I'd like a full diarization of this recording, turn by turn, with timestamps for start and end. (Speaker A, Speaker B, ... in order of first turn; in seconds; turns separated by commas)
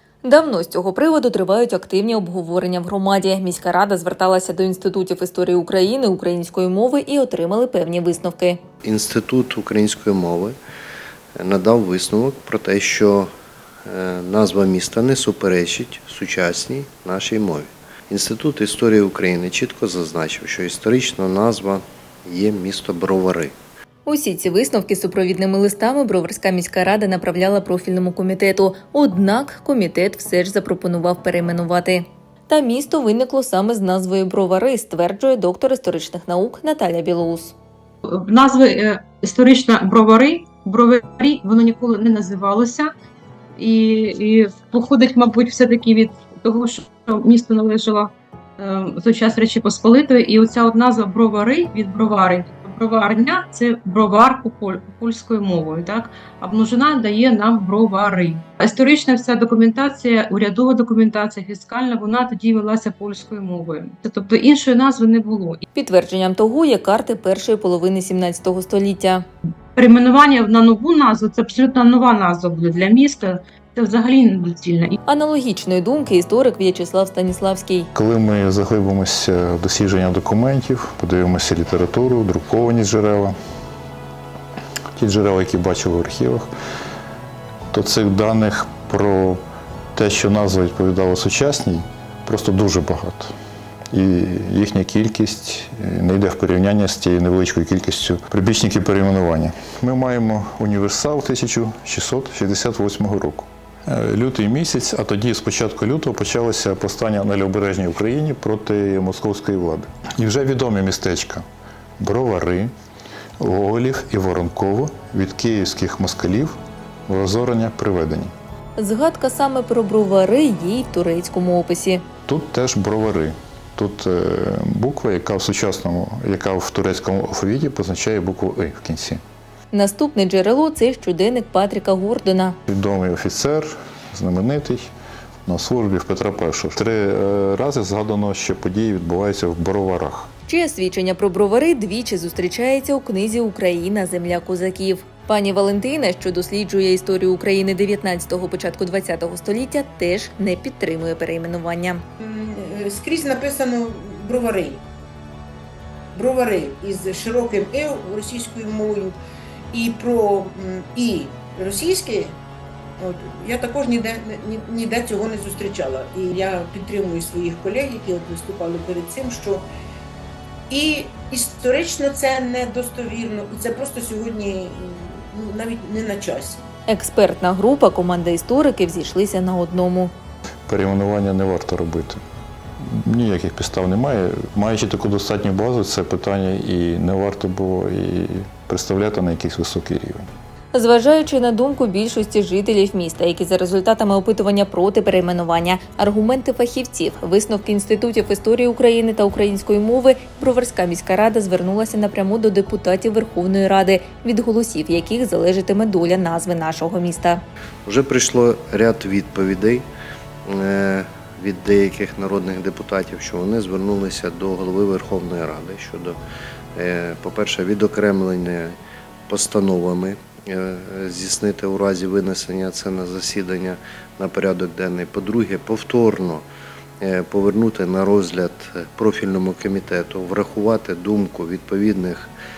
Speaker A: 0.2-8.6, Speaker B: 8.8-10.6, Speaker B: 11.4-13.3, Speaker B: 13.9-23.5, Speaker A: 24.1-37.5, Speaker C: 38.0-42.9, Speaker C: 43.6-65.6, Speaker A: 65.7-69.2, Speaker C: 69.8-75.0, Speaker A: 75.1-77.9, Speaker D: 77.9-83.3, Speaker D: 85.0-86.5, Speaker D: 87.7-89.4, Speaker D: 89.9-93.3, Speaker D: 93.9-111.4, Speaker D: 112.0-112.7, Speaker D: 113.4-116.5, Speaker D: 117.1-118.3, Speaker A: 118.8-122.0, Speaker D: 122.3-129.2, Speaker A: 129.7-132.6, Speaker D: 132.7-134.9, Speaker D: 135.4-140.3, Speaker A: 140.5-152.0, Speaker E: 152.2-154.8, Speaker E: 156.1-159.1, Speaker E: 159.7-162.4, Speaker E: 163.0-169.6, Speaker E: 170.7-176.6, Speaker A: 176.9-180.1, Speaker D: 180.7-182.2, Speaker D: 182.8-190.3, Speaker A: 190.7-207.4, Speaker B: 207.8-209.8, Speaker B: 210.4-216.2, Speaker B: 216.7-218.8, Speaker B: 219.3-226.4, Speaker B: 227.0-232.3